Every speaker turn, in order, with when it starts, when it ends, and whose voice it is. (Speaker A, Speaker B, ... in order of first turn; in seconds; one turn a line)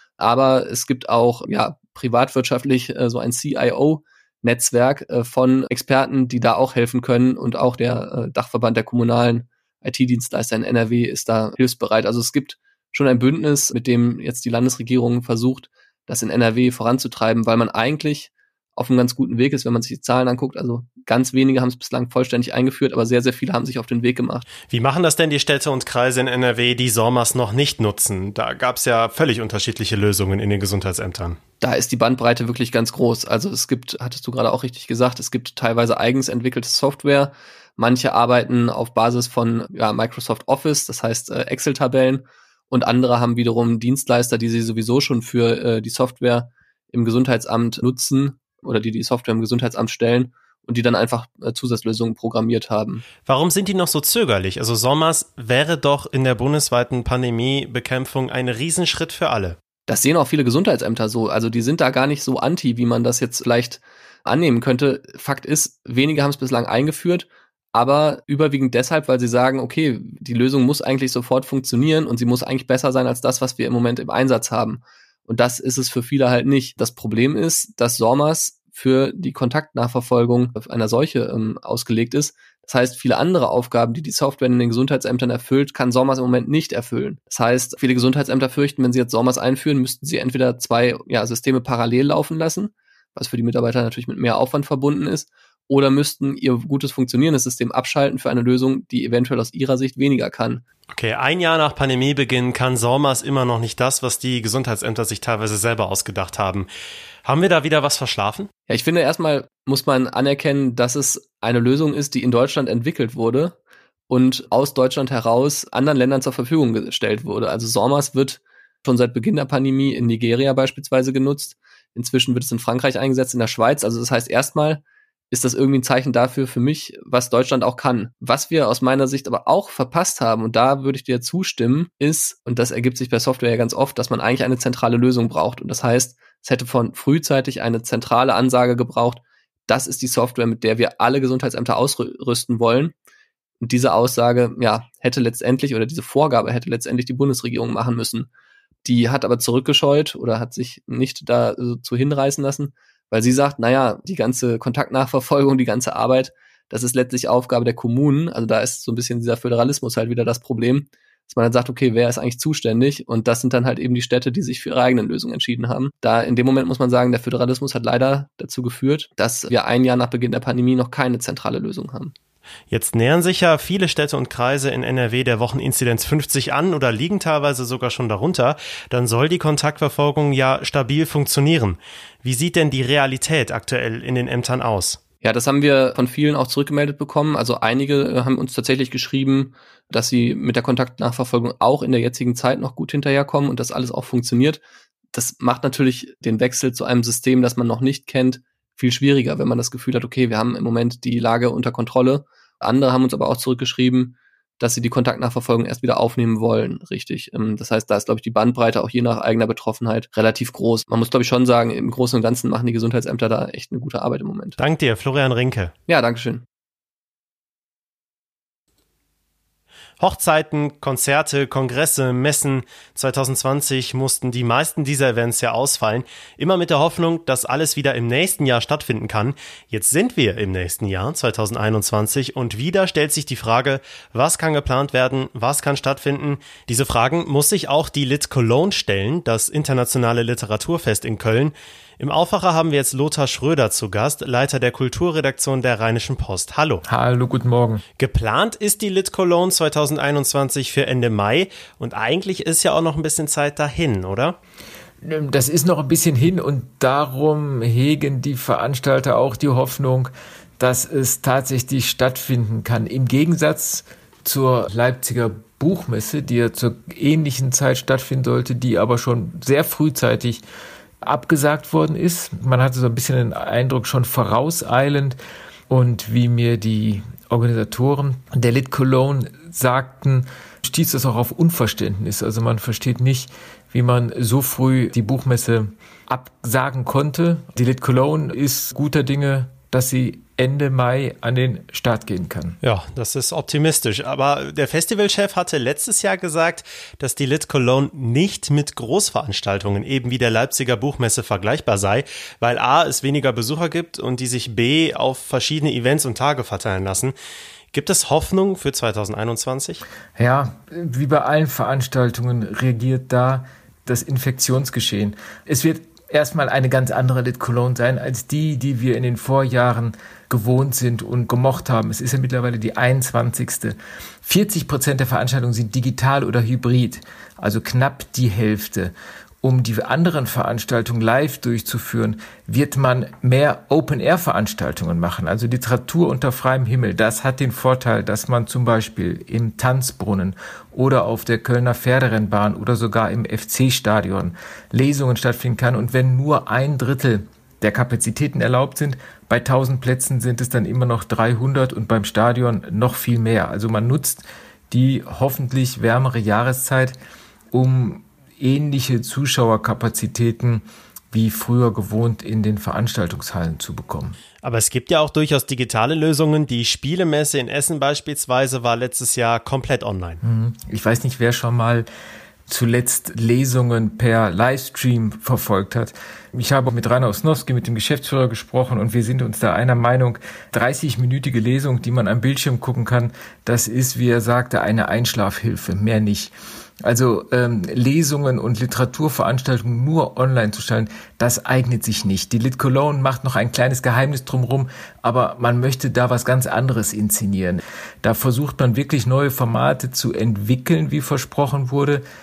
Speaker A: 0.2-24.5
Speaker B: 24.7-31.4
Speaker A: 31.6-53.0
Speaker B: 53.2-59.6
Speaker A: 59.9-100.6
Speaker B: 100.9-106.7
Speaker B: 107.2-108.5
Speaker A: 108.7-113.5
Speaker A: 114.1-142.9
Speaker A: 143.6-148.3
Speaker A: 148.8-172.1
Speaker B: 172.7-185.0
Speaker A: 185.2-194.6
Speaker A: 195.1-214.6
Speaker B: 214.6-215.7
Speaker A: 215.9-216.4
Speaker B: 220.0-246.8
Speaker C: 246.8-247.8
Speaker B: 248.0-254.4
Speaker C: 255.0-270.4
Speaker C: 271.0-275.2
Speaker C: 275.7-292.6
Speaker B: 292.6-307.1
Speaker B: 307.7-309.8
Speaker C: 310.1-356.9
Speaker C: 357.5-364.2
Speaker B: 364.4-370.2
Speaker C: 370.2-371.9
Speaker C: 372.5-386.3
Speaker C: 386.8-402.0